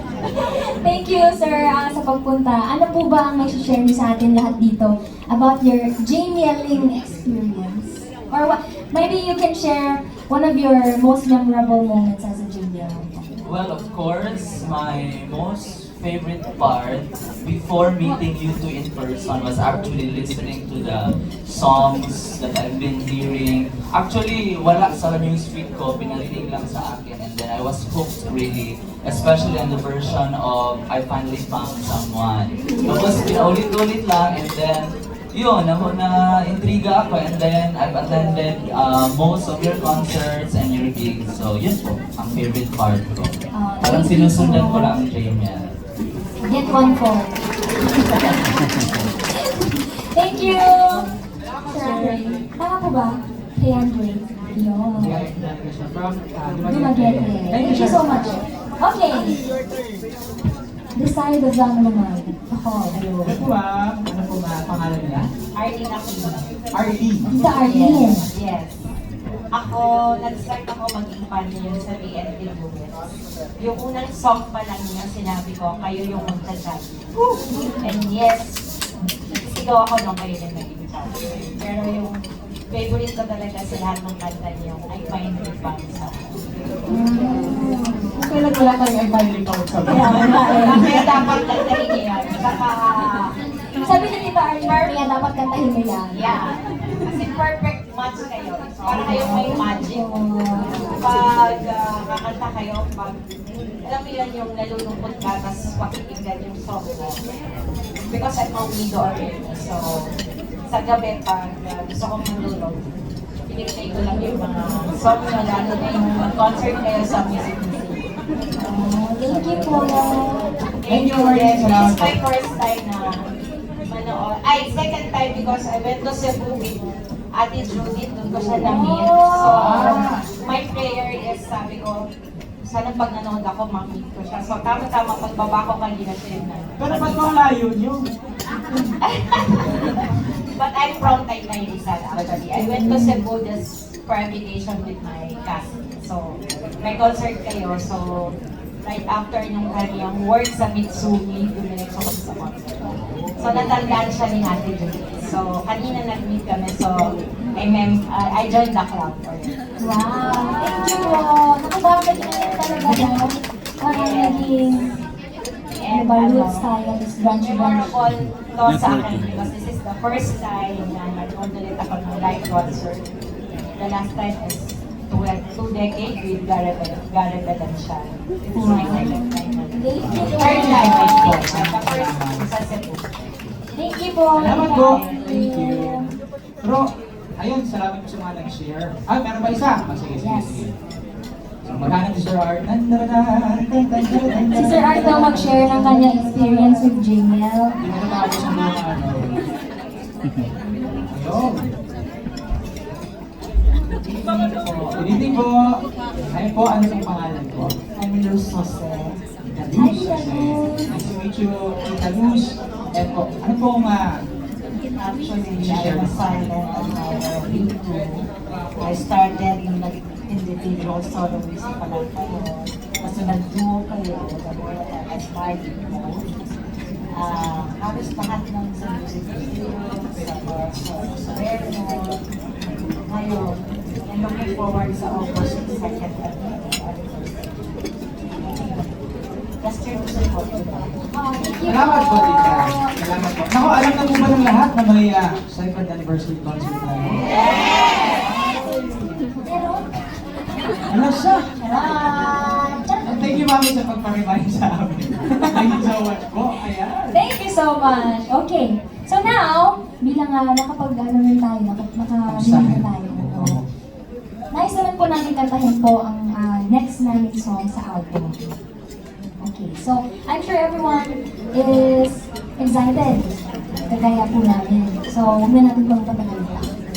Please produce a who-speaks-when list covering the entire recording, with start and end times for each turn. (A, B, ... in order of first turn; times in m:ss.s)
0:00.4-0:13.3 A
0:13.4-0:45.8 B
0:43.5-0:45.0 A
0:46.4-0:47.3 A
0:49.3-0:51.1 A
0:51.6-0:55.3 A
0:51.7-0:52.2 C
0:55.0-0:58.4 C
0:56.6-0:59.4 A
1:01.0-1:03.1 A
1:03.0-1:05.3 C
1:05.5-1:06.5 D
1:06.7-1:07.3 C
1:07.2-1:08.3 A
1:07.5-1:08.8 D
1:09.5-1:13.1 D
1:13.6-1:18.6 D
1:19.3-1:26.4 D
1:26.9-1:28.2 A
1:28.1-1:31.3 C
1:29.9-1:30.9 A
1:30.5-1:33.3 D
1:33.8-1:36.1 A
1:36.1-1:40.1 D
1:38.9-1:40.8 A
1:40.8-1:43.2 D
1:43.8-1:47.2 D
1:48.0-1:50.1 D
1:50.7-1:53.0 D
1:53.5-1:58.0 D
1:58.6-2:00.5 A
1:59.2-2:00.0 D
2:00.8-2:03.2 D
2:00.9-2:02.2 C
2:03.9-2:12.1 D
2:08.6-2:10.1 A
2:09.4-2:10.3 C
2:12.6-2:17.5 D
2:16.8-2:18.1 C
2:19.1-2:39.7 D
2:22.5-2:23.2 A
2:39.8-2:45.0 A
2:42.3-2:42.8 D
2:43.8-2:44.8 D
2:45.8-2:46.6 D
2:45.9-2:48.0 A
2:47.4-2:53.1 D
2:53.8-3:03.1 D
2:58.5-3:01.4 A
3:00.0-3:02.5 C
3:03.7-3:06.1 A
3:04.4-3:06.1 C
3:06.6-3:10.7 C
3:10.2-3:10.6 A
3:11.6-3:16.1 C
3:14.5-3:17.8 A
3:15.1-3:16.8 D
3:17.8-3:19.4 C
3:21.1-3:21.7 C
3:24.0-3:25.3 D
3:25.0-3:27.8 C
3:28.0-3:29.2 D
3:29.4-3:34.2 C
3:29.7-3:30.9 A
3:35.0-3:38.3 D
3:35.5-3:36.5 C
3:38.8-3:46.3 D
3:47.1-3:52.2 D
3:53.0-3:57.5 D
3:58.4-3:58.9 D
3:59.6-4:01.0 D
4:01.1-4:02.9 A
4:01.6-4:07.4 C
4:09.4-4:10.0 A
4:10.9-4:11.5 C
4:11.6-4:13.3 A
4:11.7-4:12.6 D
4:13.0-4:17.2 C
4:17.1-4:23.6 A
4:22.3-4:23.6 C
4:24.5-4:28.5 A
4:29.4-4:36.7 A